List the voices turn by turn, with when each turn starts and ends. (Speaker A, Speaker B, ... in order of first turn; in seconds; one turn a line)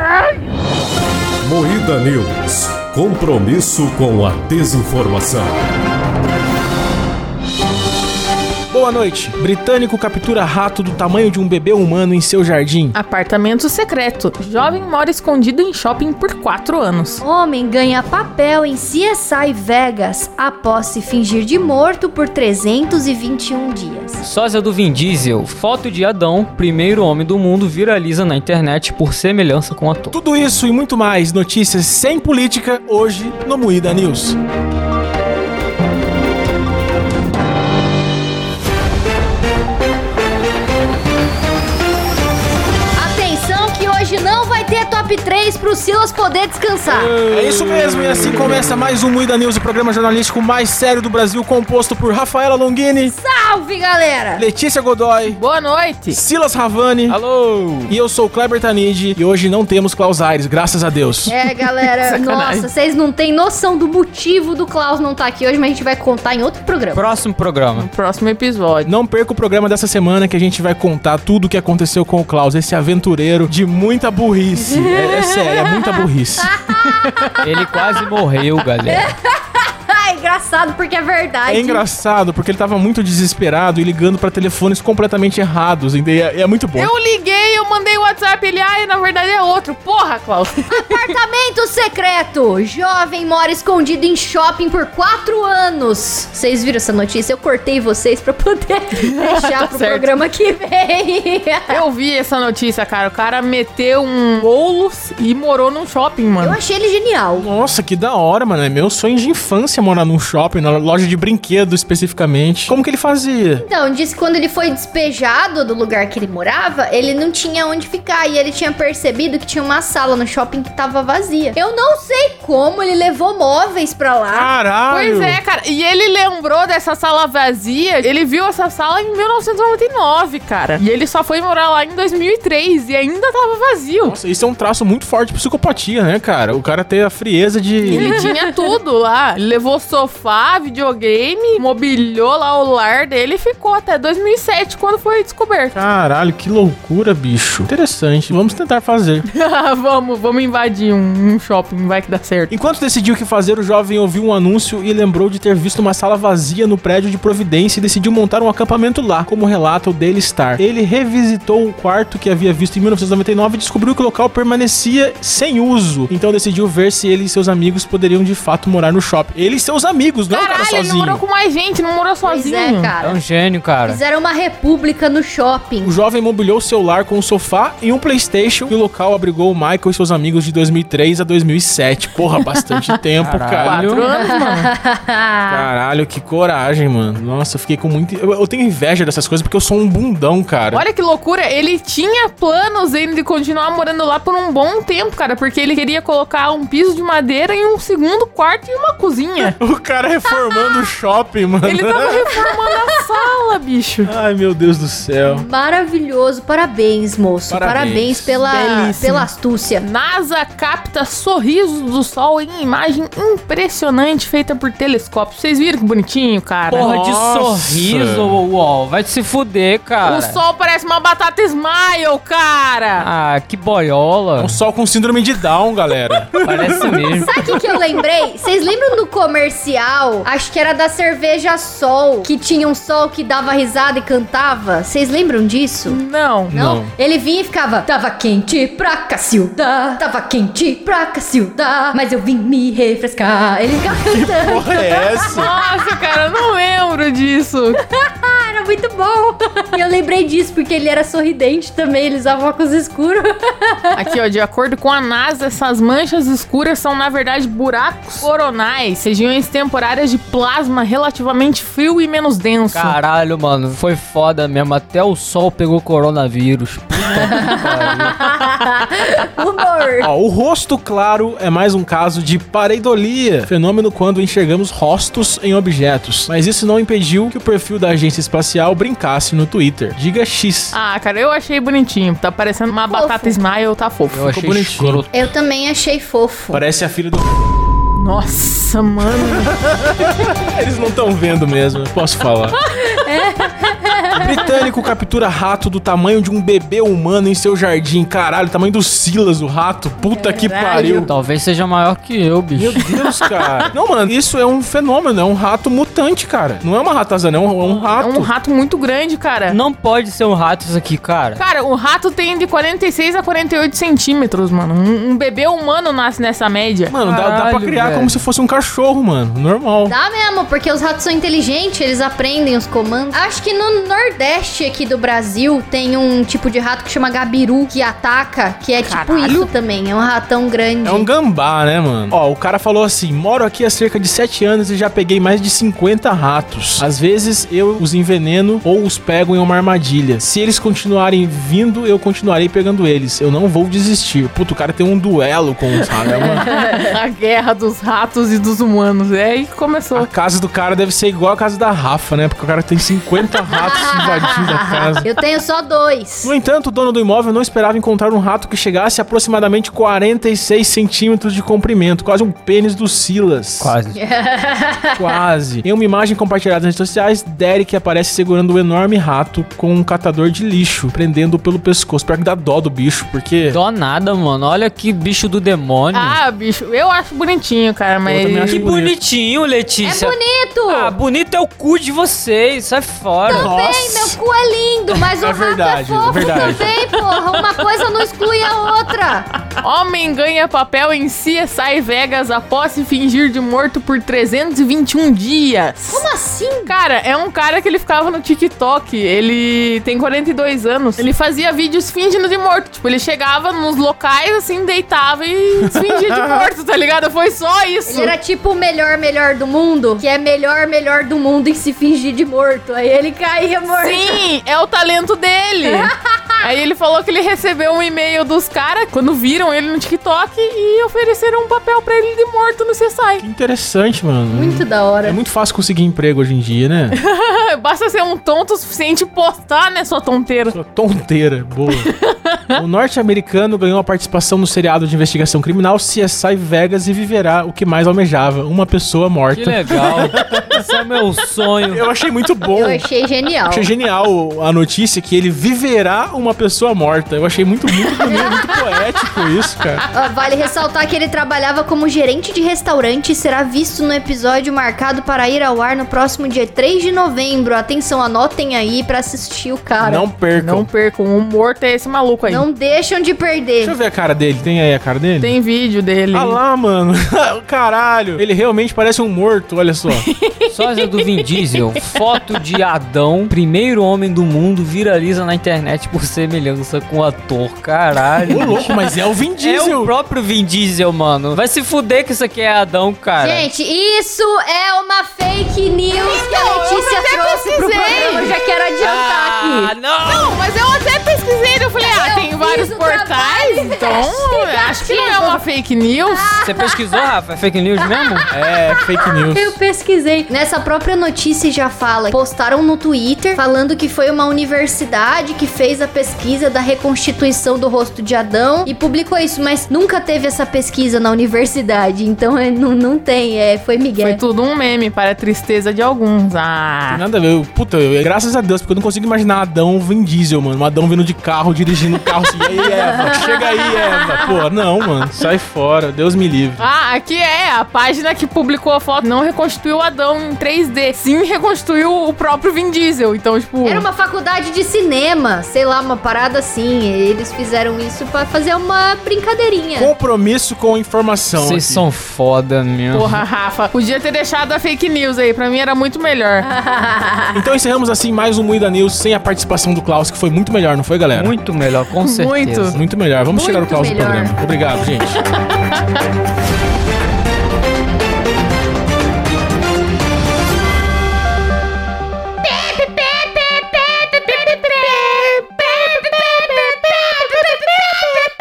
Speaker A: 1.4-5.5
Speaker B: 8.7-13.0
Speaker C: 12.9-17.2
Speaker D: 17.2-24.2
Speaker E: 24.2-30.2
Speaker B: 30.1-34.4
Speaker D: 43.0-47.2
Speaker B: 46.9-53.1
Speaker D: 53.0-54.4
Speaker B: 54.4-55.4
Speaker C: 55.3-56.2
Speaker B: 56.1-57.2
Speaker E: 57.1-57.9
Speaker B: 57.9-61.3
Speaker D: 61.3-67.1
Speaker C: 61.6-62.7
Speaker E: 66.9-67.9
Speaker C: 67.8-68.9
Speaker B: 68.8-76.5
Speaker D: 74.6-77.8
Speaker E: 77.4-79.1
Speaker D: 78.8-81.8
Speaker B: 81.5-86.9
Speaker C: 86.8-91.0
Speaker D: 90.7-101.8
Speaker C: 99.0-100.1
Speaker C: 101.7-106.6
Speaker D: 106.4-107.5
Speaker B: 107.3-113.6
Speaker D: 113.6-124.5
Speaker B: 124.3-125.4
Speaker C: 124.9-134.2
Speaker B: 134.0-138.3
Speaker D: 137.9-138.4
Speaker C: 137.9-145.8
Speaker B: 145.7-149.2
Speaker C: 149.3-152.5
Speaker B: 152.5-171.2
Speaker C: 170.3-172.9
Speaker D: 172.2-173.2
Speaker E: 173.0-174.0
Speaker D: 173.8-175.9
Speaker B: 175.8-183.9
Speaker C: 182.4-182.9
Speaker E: 183.2-184.1
Speaker C: 183.6-184.7
Speaker D: 184.1-185.7
Speaker B: 185.5-190.8
Speaker C: 190.7-199.6
Speaker B: 199.6-202.2
Speaker D: 200.4-200.8
Speaker C: 201.7-204.1
Speaker D: 202.2-202.5
Speaker B: 204.1-205.5
Speaker D: 205.2-209.8
Speaker B: 207.5-209.0
Speaker C: 208.4-216.9
Speaker E: 216.7-220.4
Speaker B: 216.8-218.4
Speaker C: 220.0-223.1
Speaker E: 223.0-224.6
Speaker B: 224.4-226.9
Speaker E: 226.4-227.3
Speaker D: 227.1-236.0
Speaker C: 235.9-236.5
Speaker B: 236.5-236.9
Speaker D: 236.5-246.1
Speaker B: 244.0-245.5
Speaker C: 245.3-247.8
Speaker D: 247.9-254.0
Speaker C: 253.9-263.0
Speaker E: 262.7-268.1
Speaker D: 267.2-270.1
Speaker B: 270.0-280.8
Speaker C: 280.7-284.4
Speaker D: 282.9-283.4
Speaker E: 284.1-285.1
Speaker B: 284.3-285.0
Speaker D: 285.1-286.6
Speaker B: 286.5-287.3
Speaker C: 288.0-289.6
Speaker B: 289.5-292.6
Speaker D: 293.0-294.7
Speaker B: 294.1-301.1
Speaker C: 300.1-301.1
Speaker E: 301.1-303.1
Speaker B: 302.5-308.3
Speaker C: 307.9-309.6
Speaker E: 309.5-311.4
Speaker C: 311.4-316.9
Speaker B: 316.9-319.9
Speaker E: 317.0-318.2
Speaker D: 319.9-331.1
Speaker C: 328.8-329.5
Speaker B: 330.8-346.4
Speaker C: 345.8-350.1
Speaker D: 346.2-346.8
Speaker B: 349.9-355.1
Speaker D: 353.4-356.3
Speaker B: 356.2-363.8
Speaker E: 363.6-364.0
Speaker D: 363.9-365.2
Speaker B: 365.0-373.6
Speaker E: 373.5-376.2
Speaker C: 375.9-378.6
Speaker B: 378.1-378.9
Speaker E: 378.5-383.5
Speaker D: 379.8-380.9
Speaker D: 383.2-389.3
Speaker B: 383.3-384.1
Speaker B: 385.2-386.8
Speaker C: 386.2-388.6
Speaker C: 389.5-396.1
Speaker D: 395.9-396.8
Speaker C: 396.6-408.1
Speaker D: 407.9-414.2
Speaker C: 413.7-423.2
Speaker D: 415.6-416.2
Speaker B: 423.2-427.0
Speaker D: 424.3-425.2
Speaker C: 426.9-430.6
Speaker B: 430.5-431.9
Speaker C: 431.8-432.6
Speaker B: 432.5-440.6
Speaker E: 439.3-441.8
Speaker B: 441.7-442.9
Speaker D: 442.5-443.7
Speaker B: 443.4-449.9
Speaker D: 448.1-448.8
Speaker D: 449.9-460.1
Speaker B: 459.8-460.7
Speaker C: 460.3-462.4
Speaker D: 462.2-463.8
Speaker B: 463.6-465.3
Speaker C: 465.2-466.4
Speaker B: 466.1-470.1
Speaker C: 469.9-472.0
Speaker E: 470.5-478.7
Speaker C: 478.2-478.8
Speaker B: 478.3-479.9
Speaker E: 479.4-483.5
Speaker D: 483.2-489.7
Speaker C: 486.0-488.4
Speaker E: 488.8-490.4
Speaker C: 490.0-496.4
Speaker D: 491.8-495.4
Speaker D: 496.0-497.0
Speaker E: 496.4-498.3
Speaker D: 498.0-514.2
Speaker B: 498.3-499.6
Speaker C: 514.0-517.0
Speaker B: 516.9-526.7
Speaker C: 522.6-523.2
Speaker C: 526.6-533.9
Speaker D: 533.6-539.9
Speaker B: 539.8-541.9
Speaker E: 541.4-543.2
Speaker C: 542.9-546.5
Speaker D: 546.5-547.4
Speaker B: 547.3-551.3
Speaker E: 551.1-552.8
Speaker C: 552.0-552.8
Speaker B: 552.7-555.2
Speaker D: 553.3-554.4
Speaker C: 564.4-566.7